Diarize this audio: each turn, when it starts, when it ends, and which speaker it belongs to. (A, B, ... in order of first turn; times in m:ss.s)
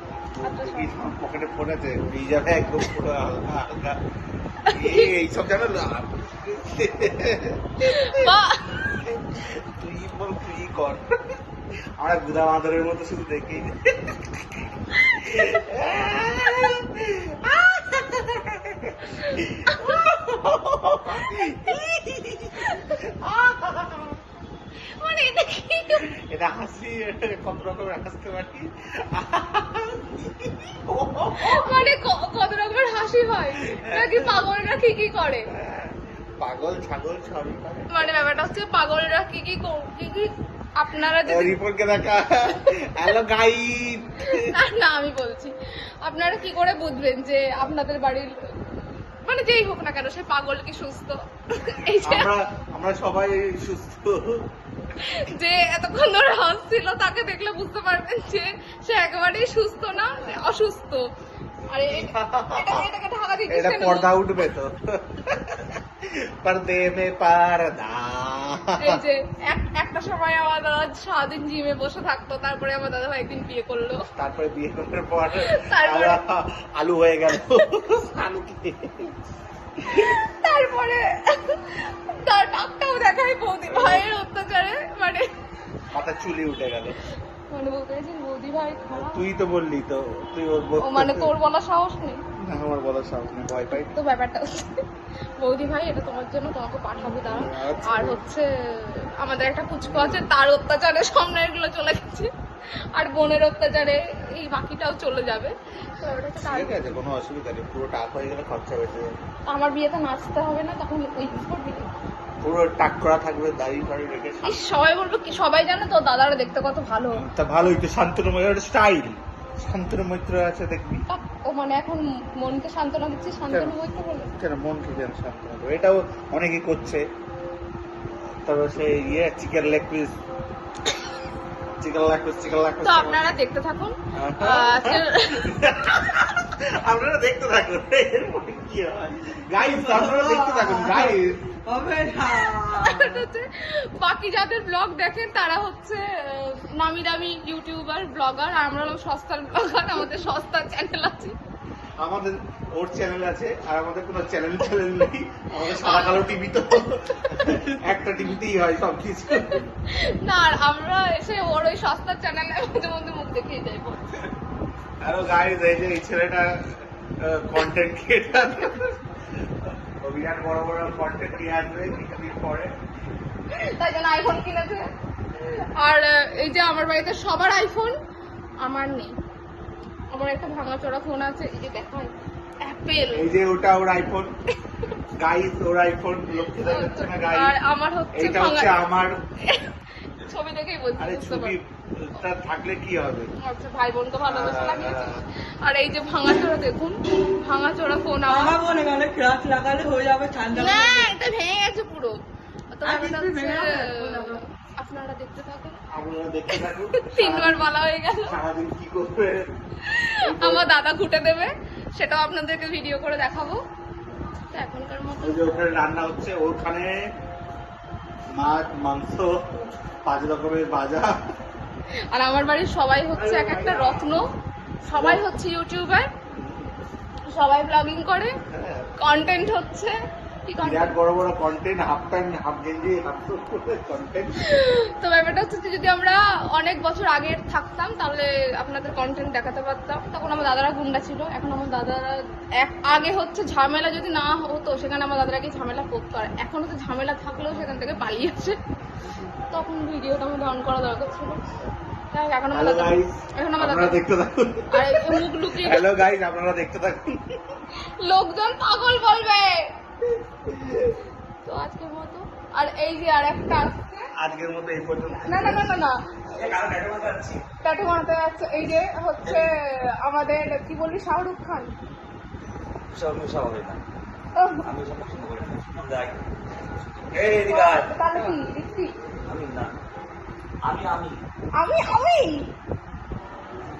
0:00.3-0:04.0 A
0:00.4-0:00.9 B
0:04.6-0:05.1 B
0:04.7-0:11.4 A
0:07.8-0:08.8 B
0:12.0-0:14.7 A
0:14.9-0:15.4 B
0:15.2-0:24.2 A
0:19.2-0:20.0 B
0:21.1-0:21.7 B
0:22.6-0:23.0 B
0:24.9-0:26.1 B
0:26.1-0:31.9 A
0:31.4-0:35.5 B
0:33.6-0:34.5 A
0:35.5-0:38.3 A
0:37.9-0:41.6 B
0:41.2-0:44.6 A
0:44.2-0:52.3 B
0:52.0-0:54.4 A
0:55.0-1:01.0 B
1:01.7-1:04.3 B
1:01.8-1:02.9 A
1:03.5-1:09.0 A
1:08.8-1:14.0 B
1:14.2-1:19.1 A
1:15.4-1:16.2 B
1:19.8-1:20.1 A
1:19.9-1:25.3 B
1:23.7-1:24.1 A
1:25.9-1:26.9 A
1:27.5-1:29.2 B
1:28.9-1:31.3 A
1:30.8-1:32.2 B
1:32.4-1:33.9 A
1:33.9-1:34.8 B
1:35.4-1:42.3 B
1:37.0-1:38.2 A
1:39.8-1:40.2 A
1:42.9-1:46.8 B
1:46.4-1:49.1 A
1:49.4-1:51.9 B
1:52.4-1:54.6 A
1:54.4-1:57.2 B
1:57.1-2:01.0 A
2:01.1-2:04.3 B
2:03.5-2:03.8 A
2:04.3-2:07.0 A
2:08.4-2:10.2 A
2:11.8-2:13.3 A
2:12.8-2:15.6 B
2:14.1-2:21.4 A
2:19.6-2:23.2 C
2:22.4-2:31.4 B
2:32.0-2:39.7 A
2:35.6-2:36.2 B
2:39.5-2:44.3 B
2:45.0-2:49.0 A
2:49.6-2:52.7 A
2:53.5-2:54.9 B
2:55.7-2:57.9 B
2:58.6-2:59.1 B
3:00.1-3:03.2 B
3:03.1-3:04.3 A
3:05.2-3:07.5 A
3:06.6-3:08.8 B
3:08.1-3:09.2 A
3:09.4-3:11.6 B
3:11.0-3:13.3 A
3:13.4-3:18.6 B
3:14.2-3:15.2 A
3:18.3-3:21.2 C
3:20.5-3:22.2 B
3:22.7-3:25.8 B
3:22.8-3:24.4 C
3:25.9-3:27.7 A
3:27.0-3:28.3 B
3:28.2-3:29.5 A
3:29.8-3:33.6 B
3:30.2-3:30.7 A
3:34.5-3:35.5 B
3:35.2-3:37.0 A
3:38.3-3:39.3 A
3:40.0-3:41.2 A
3:42.1-3:44.3 B
3:43.2-3:44.2 A
3:44.9-3:46.1 B
3:44.9-3:45.2 A
3:46.3-3:46.7 A
3:47.3-3:48.4 B
3:48.5-3:48.9 A
3:49.0-3:50.0 B
3:50.5-3:50.9 B
3:50.6-3:54.4 A
3:54.4-4:08.6 B
4:09.5-4:11.4 B
4:12.1-4:14.0 B
4:12.5-4:17.6 A
4:14.7-4:15.8 B
4:18.0-4:19.7 B
4:20.4-4:20.9 A
4:21.4-4:24.1 B
4:24.2-4:25.7 A
4:25.1-4:26.0 B
4:26.3-4:27.4 C
4:27.6-4:31.7 B
4:32.9-4:33.8 C
4:34.4-4:34.6 B
4:34.6-4:36.2 C
4:37.2-4:38.3 A
4:37.4-4:38.9 B
4:39.3-4:39.7 C
4:40.6-4:41.2 C
4:41.6-4:42.5 B